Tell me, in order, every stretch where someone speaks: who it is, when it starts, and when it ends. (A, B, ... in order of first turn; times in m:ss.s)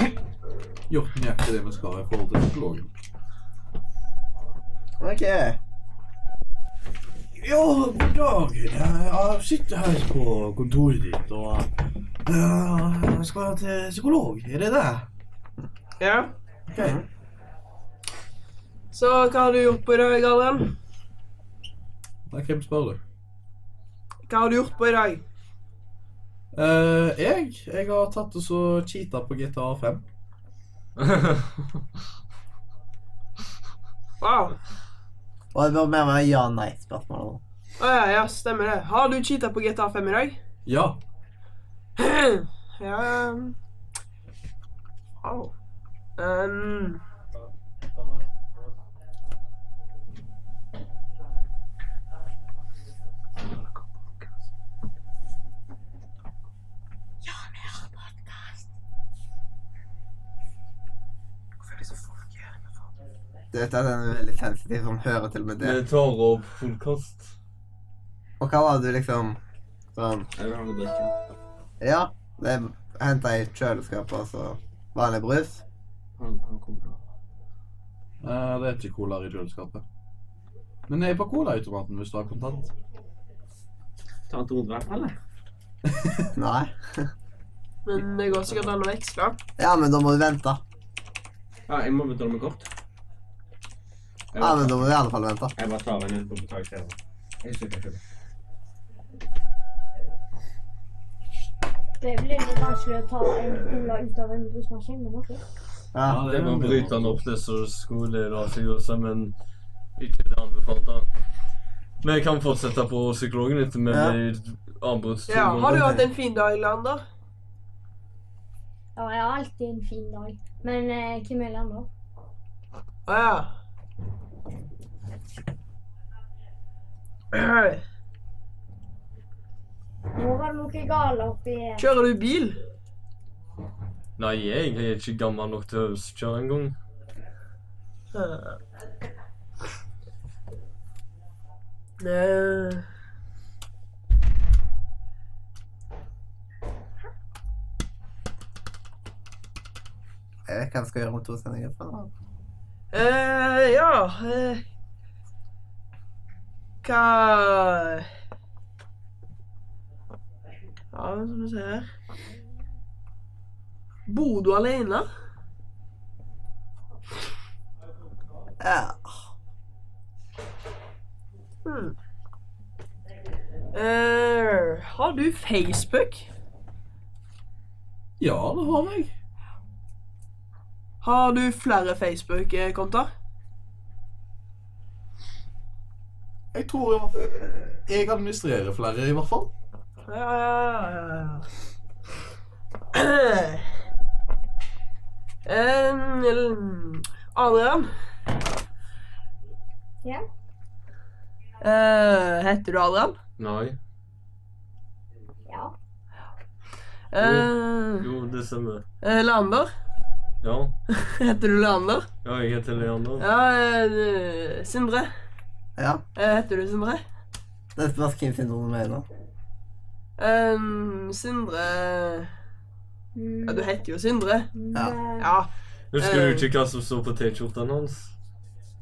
0:00.9-0:02.9 A
0:05.0-0:05.6 B
0:07.4-0:11.7 A
0:12.2-0:15.1 A
0:16.0-0:16.3 C
0:16.7-0:17.0 A
0:16.8-0:17.0 B
0:18.9-0:20.7 C
0:22.3-0:23.0 A
0:24.3-0:25.2 C
0:26.5-0:30.0 A
0:31.0-0:31.6 D
0:34.2-0:34.5 C
0:35.5-0:37.4 B
0:37.8-0:40.4 C
0:40.6-0:41.0 A
0:42.0-0:43.6 C
0:45.2-0:45.5 C
0:46.2-0:47.0 C
0:57.3-0:58.2 E
1:03.5-1:05.8 B
1:05.6-1:07.3 D
1:08.4-1:09.4 B
1:10.0-1:10.3 B
1:10.4-1:11.1 F
1:11.8-1:15.6 B
1:16.2-1:17.0 F
1:18.2-1:19.8 A
1:20.9-1:22.7 A
1:24.3-1:25.2 F
1:25.9-1:26.2 A
1:26.3-1:27.1 B
1:27.8-1:29.4 C
1:29.6-1:30.6 B
1:31.7-1:32.7 F
1:34.3-1:34.8 F
1:34.4-1:35.5 B
1:35.6-1:38.0 F
1:42.0-1:45.4 E
1:45.9-1:46.2 B
1:46.0-1:47.2 A
1:46.3-1:49.3 D
1:50.0-1:51.1 D
1:52.0-1:56.0 D
1:53.9-1:54.2 B
1:55.3-1:57.0 C
1:55.7-1:56.0 B
1:59.0-2:01.9 E
2:03.1-2:03.5 C
2:07.3-2:07.8 C
2:10.1-2:11.8 E
2:11.8-2:12.6 C
2:14.2-2:16.8 D
2:18.1-2:18.6 C
2:22.0-2:22.8 C
2:30.5-2:32.1 B
2:32.9-2:34.6 C
2:36.8-2:38.1 C
2:40.9-2:41.9 C
2:44.1-2:45.1 C
2:48.6-2:49.1 B
2:51.6-2:51.9 C
2:53.7-2:56.3 C
2:58.2-2:59.1 A
3:01.0-3:03.1 C
3:06.5-3:09.5 A
3:10.1-3:11.4 C
3:12.9-3:13.6 C
3:15.4-3:17.9 C
3:21.6-3:23.2 C
3:23.4-3:23.8 D
3:25.5-3:25.7 E
3:27.1-3:28.1 C
3:27.2-3:28.8 D
3:29.0-3:29.7 C
3:30.4-3:30.7 D
3:30.9-3:32.1 C
3:32.2-3:33.2 D
3:33.2-3:35.1 C
3:35.8-3:36.0 B
3:36.2-3:37.0 C
3:37.8-3:39.0 B
3:40.2-3:42.3 C
3:43.1-3:43.7 E
3:43.4-3:44.5 C
3:44.5-3:45.3 E
3:45.2-3:45.5 C
3:45.9-3:48.1 D
3:46.0-3:46.4 C